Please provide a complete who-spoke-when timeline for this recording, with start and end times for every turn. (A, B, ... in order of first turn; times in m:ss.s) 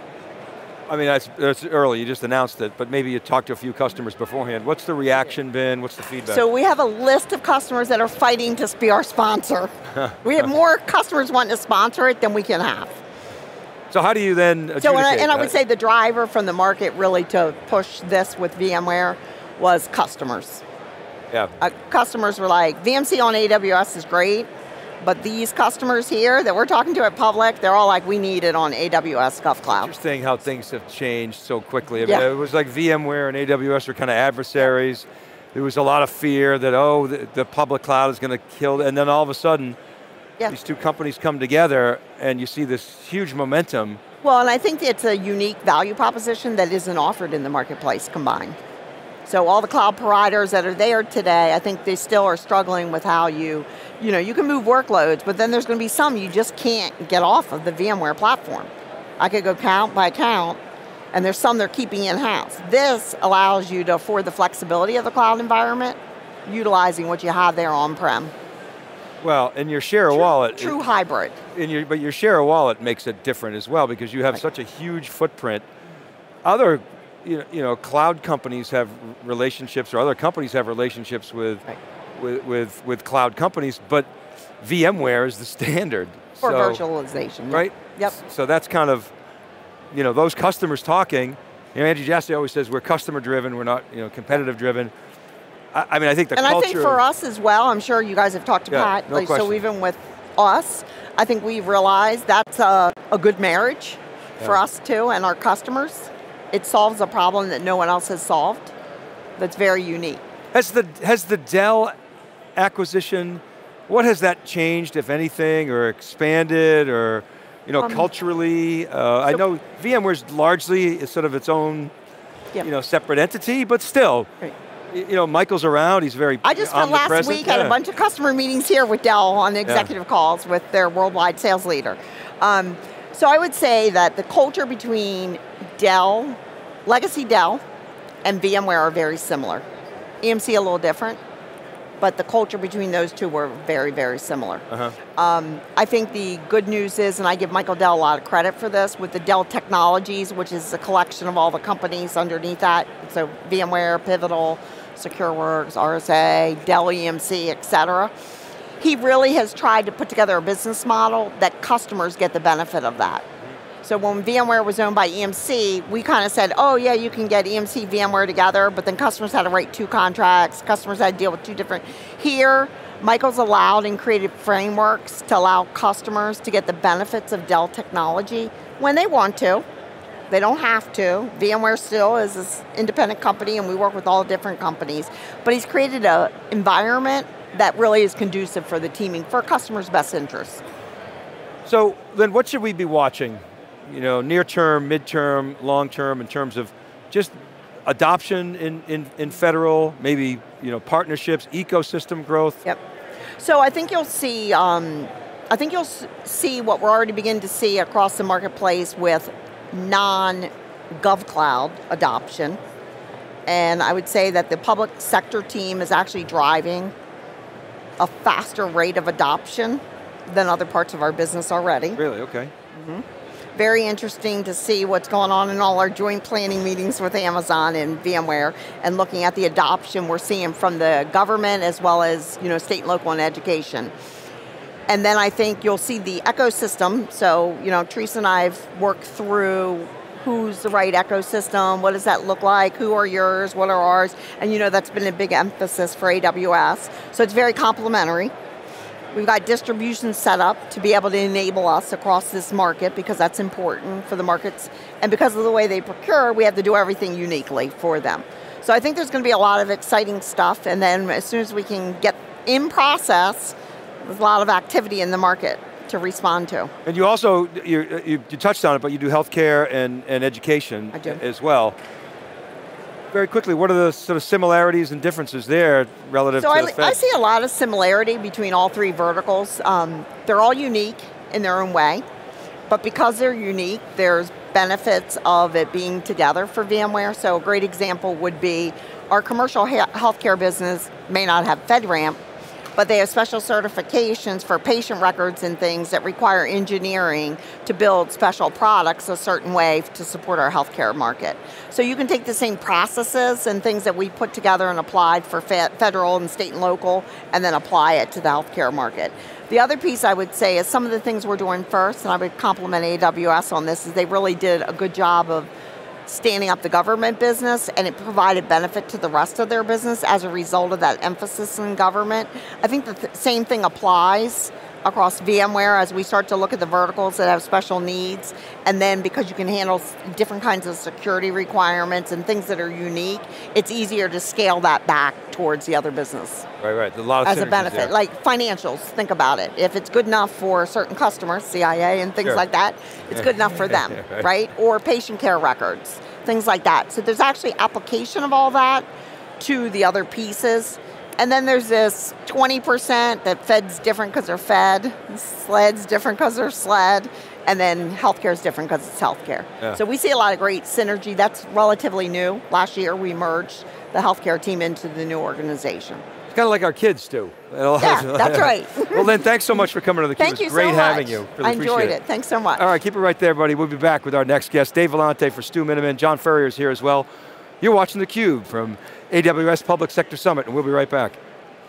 0:00.9-0:06.4 A
0:06.3-0:13.0 B
0:13.9-0:15.5 A
0:14.8-0:20.6 B
0:21.6-0:24.5 B
0:25.0-0:29.9 B
0:29.7-0:39.8 A
0:40.5-0:44.0 A
0:44.2-0:48.6 B
0:49.2-1:00.6 B
1:01.1-1:08.3 B
1:09.2-1:10.8 A
1:10.1-1:11.4 B
1:11.5-1:15.6 A
1:16.4-1:21.6 A
1:22.2-1:24.1 A
1:24.6-1:26.8 A
1:26.4-1:28.2 B
1:27.5-1:29.1 A
1:29.9-1:34.9 A
1:35.7-1:37.0 A
1:36.4-1:48.7 B
1:38.7-1:39.6 A
1:49.4-1:50.2 B
1:50.5-1:51.9 A
1:52.6-2:01.9 A
1:57.8-1:58.1 B
2:02.6-2:04.3 A
2:04.9-2:07.8 A
2:06.4-2:17.6 B
2:18.2-2:19.6 B
2:20.2-2:21.2 B
2:22.0-2:38.1 B
2:38.8-2:43.2 B
2:43.8-2:59.6 B
3:00.3-3:10.6 B
3:11.6-3:22.6 A
3:23.4-3:32.6 B
3:33.5-3:36.9 B
3:38.0-3:42.0 B
3:42.0-3:42.5 A
3:42.7-3:43.0 B
3:43.6-3:53.9 B
3:54.9-4:08.3 B
4:09.1-4:26.7 B
4:26.8-4:31.8 A
4:30.9-4:31.2 B
4:33.1-4:37.0 A
4:36.4-4:42.0 B
4:42.7-4:52.2 B
4:52.8-5:15.5 B
5:16.0-5:36.5 B
5:36.6-5:37.9 A
5:37.2-5:48.9 B
5:43.2-5:44.3 A
5:49.4-6:06.0 B
6:06.3-6:12.0 A
6:07.8-6:09.0 B
6:10.2-6:12.6 B
6:12.6-6:17.1 A
6:17.6-6:21.2 A